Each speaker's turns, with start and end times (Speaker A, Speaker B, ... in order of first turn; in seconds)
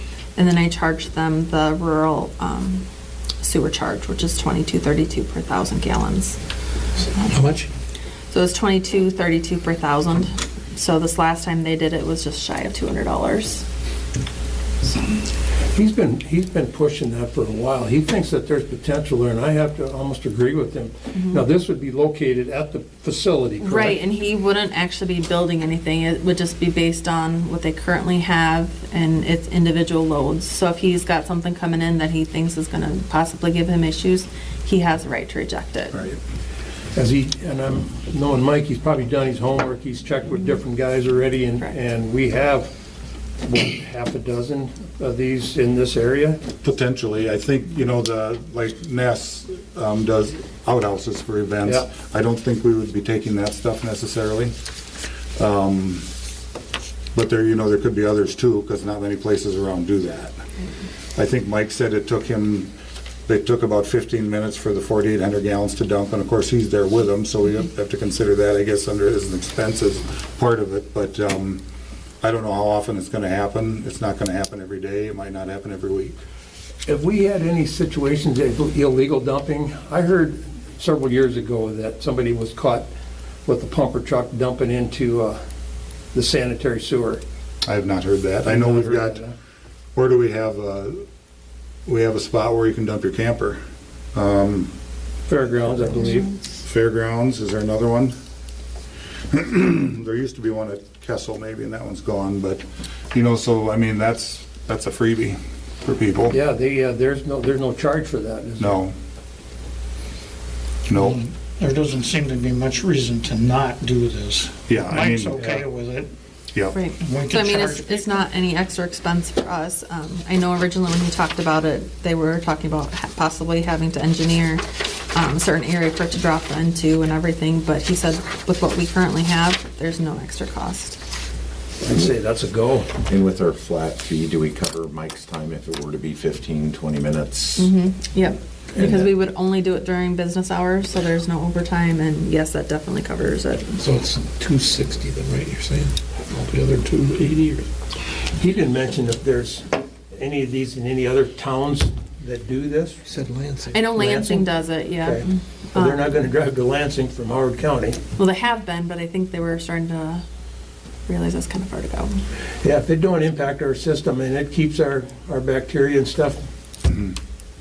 Speaker A: 0.3-2.9, 3.4-6.4, 8.3-13.6, 21.1-21.4, 23.6-36.1, 116.7-131.0, 137.6-143.8, 153.7-156.1, 158.2-160.2, 161.1-162.2
Speaker B: 7.2-7.7, 143.8-147.7, 153.1-153.8
Speaker C: 15.7-24.0, 36.9-42.7, 43.4-46.4, 76.8-82.9, 83.5-85.4, 86.1-87.2, 88.5-89.3, 95.3-96.3, 106.3-108.8, 131.8-133.0, 138.7-139.1, 148.3-153.1, 153.9-154.5, 155.0-158.0, 162.6-166.4
Speaker D: 46.6-54.5, 55.4-56.1, 57.1-60.3, 61.1-62.7, 63.3-71.6, 72.2-76.2, 87.6-89.2, 89.9-91.0, 91.8-93.6, 94.1-94.7, 95.8-96.0, 96.6-98.1, 99.3-106.4, 108.6-108.9, 110.9-111.2, 114.7-115.3, 166.8-167.2
Speaker E: 111.0-116.1, 117.0-118.2
Speaker F: 133.0-137.7